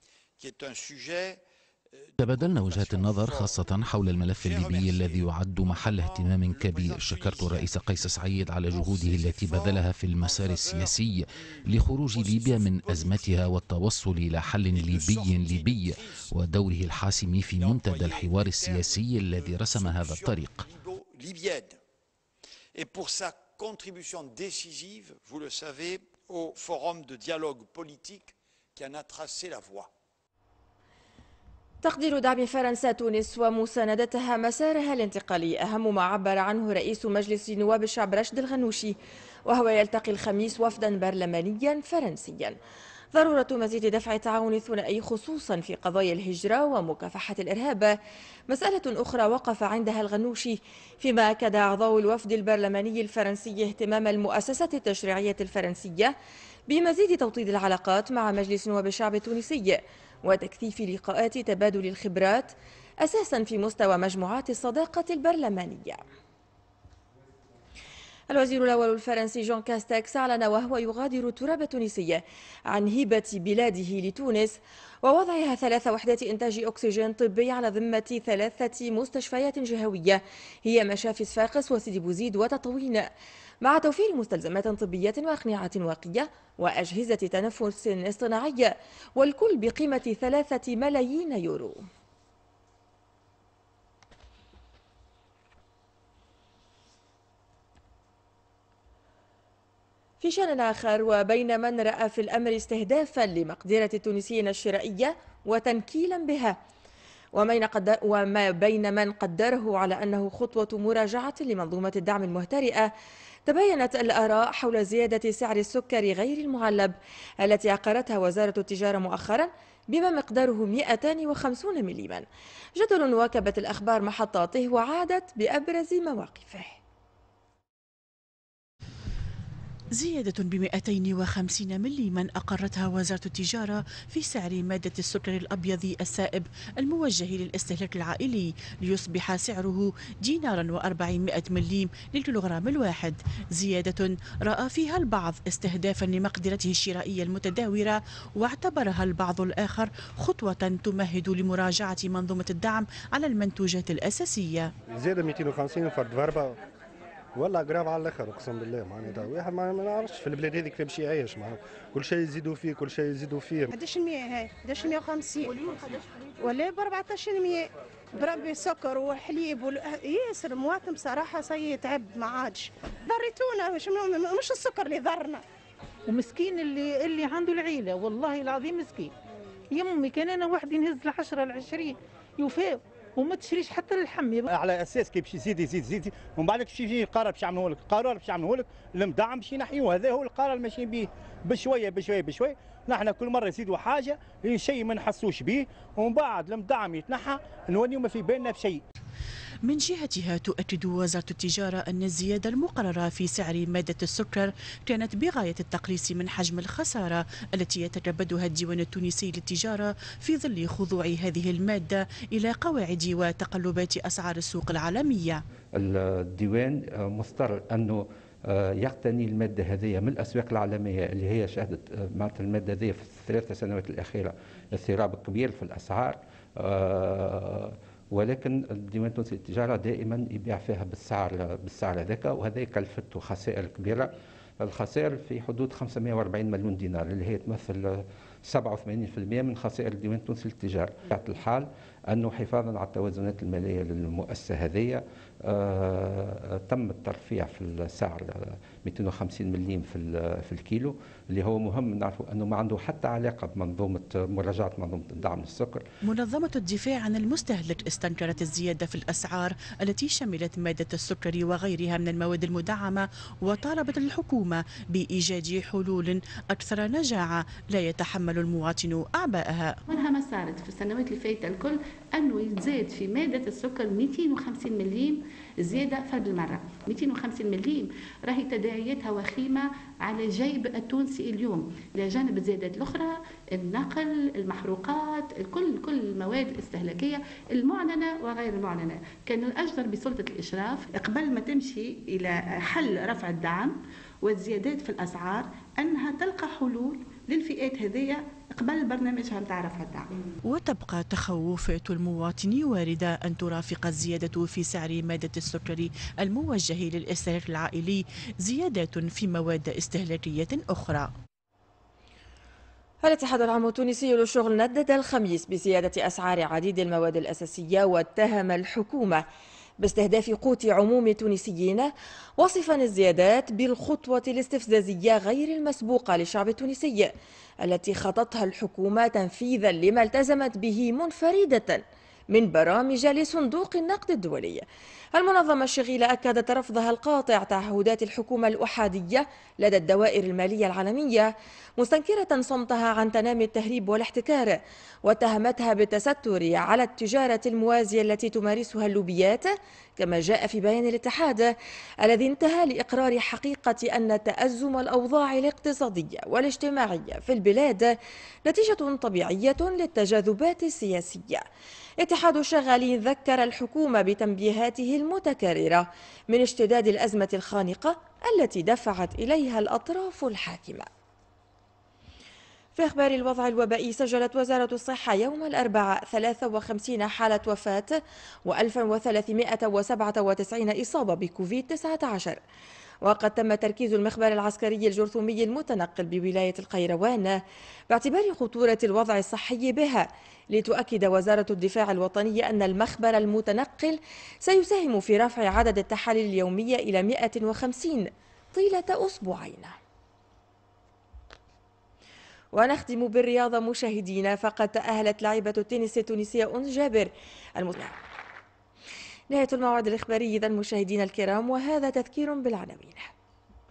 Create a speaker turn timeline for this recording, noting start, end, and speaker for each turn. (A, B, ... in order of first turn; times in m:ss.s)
0:00.4-0:01.4 A
0:01.9-0:08.2 A
0:02.2-0:20.7 B
0:08.7-0:13.6 A
0:14.7-0:16.4 A
0:17.6-0:21.8 A
0:22.8-0:29.9 A
0:31.8-0:42.6 C
0:43.1-0:48.0 C
0:48.5-0:56.1 C
0:56.7-1:06.0 C
1:08.3-1:23.1 C
1:23.6-1:31.9 C
1:40.2-1:46.6 C
1:47.4-1:52.9 C
1:53.5-2:02.2 C
2:02.8-2:06.8 C
2:10.0-2:34.7 D
2:15.6-2:16.2 E
2:35.0-2:36.6 F
2:37.4-2:43.7 F
2:43.6-2:55.4 E
2:56.1-2:59.1 G
2:59.7-3:04.5 G
3:04.5-3:18.8 H
3:19.7-3:35.4 D
3:35.8-4:15.8 I
4:16.1-4:29.7 D
4:17.4-4:20.5 E
4:23.6-4:24.1 E
4:29.9-5:00.1 J
5:00.6-5:11.1 D
5:13.0-5:19.2 C
5:19.8-5:58.0 C
5:58.5-6:01.4 C
6:02.0-6:10.9 C
6:12.8-6:22.4 C
6:23.0-6:27.4 C
6:27.9-6:39.8 C
6:42.5-6:48.0 C
6:49.3-6:53.1 C